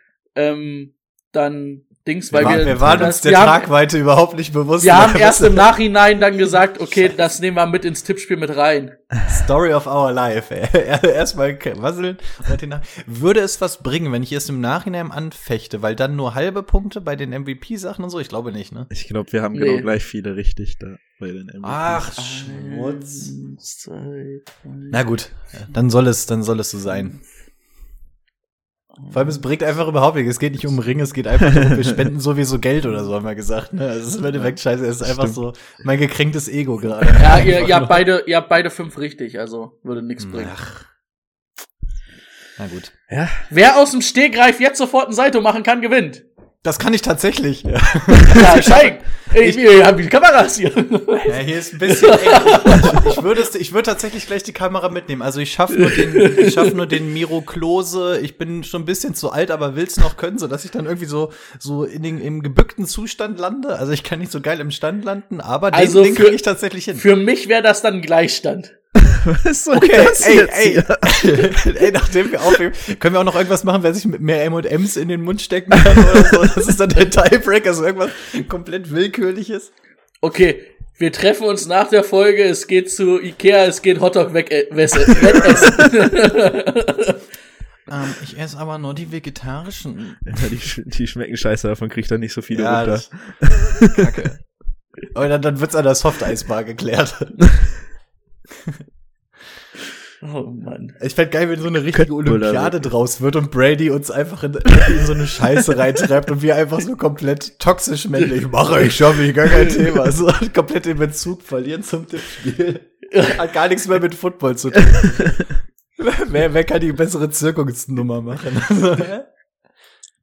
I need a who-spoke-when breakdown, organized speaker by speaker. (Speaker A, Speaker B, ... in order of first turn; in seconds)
Speaker A: 0.3-3.7, 4.8-9.0, 19.5-19.9, 22.2-25.0, 37.2-40.5, 43.5-46.2, 48.3-53.1, 55.7-56.7, 65.7-66.4, 66.9-68.8, 80.2-87.2, 100.2-101.0, 113.1-113.4
Speaker B: 2.3-5.7, 6.8-7.1, 9.2-18.9, 21.6-23.3, 24.9-27.2, 29.1-38.0, 40.2-40.9, 42.6-42.9, 46.6-49.7, 51.3-67.0, 69.7-79.7, 85.1-85.8, 87.9-90.4, 92.5-93.3, 93.9-94.5, 95.0-97.6, 101.0-115.4, 116.0-119.3
Speaker C: 18.9-22.1, 34.3-35.4, 43.1-43.4, 69.2-71.8, 76.0-76.3, 90.3-94.1, 101.9-102.9